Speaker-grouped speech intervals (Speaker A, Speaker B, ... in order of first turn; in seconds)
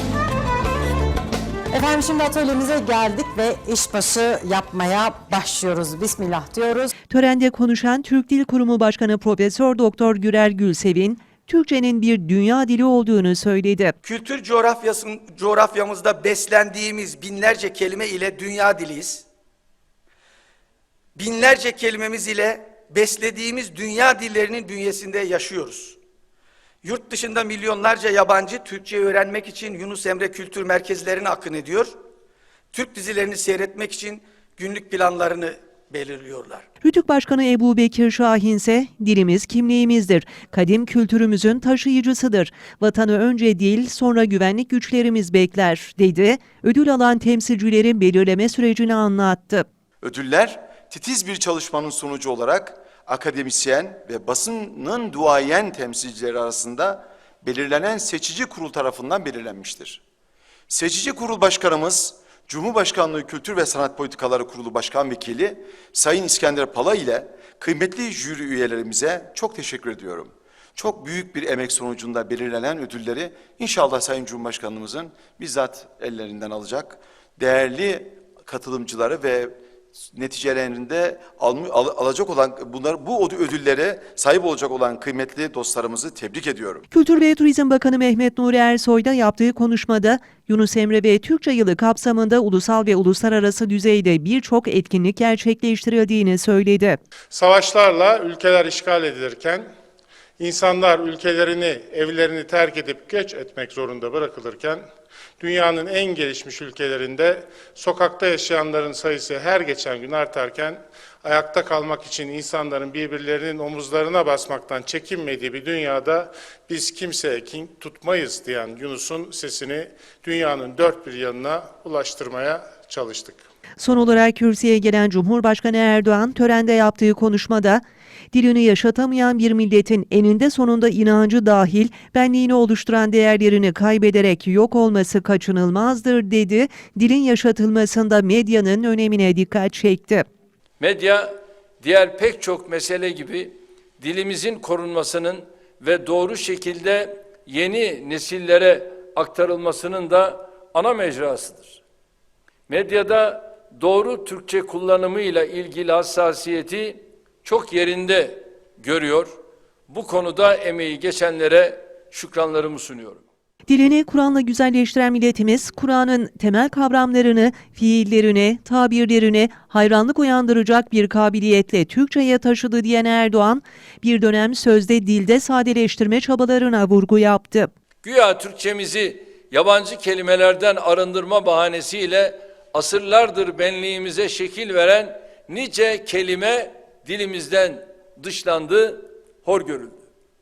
Speaker A: 1.7-6.9
Speaker B: 7.1-13.9, 36.8-49.6, 86.9-97.0, 123.8-140.2, 163.7-177.7
Speaker C: 14.0-19.2, 21.1-26.0, 26.8-31.9, 32.7-36.6
Speaker D: 50.0-60.0, 60.7-79.6, 80.1-86.8
Speaker E: 97.3-99.6, 100.4-104.8, 105.4-123.4
Speaker F: 140.8-151.8, 152.7-159.3, 159.9-163.2, 178.0-190.0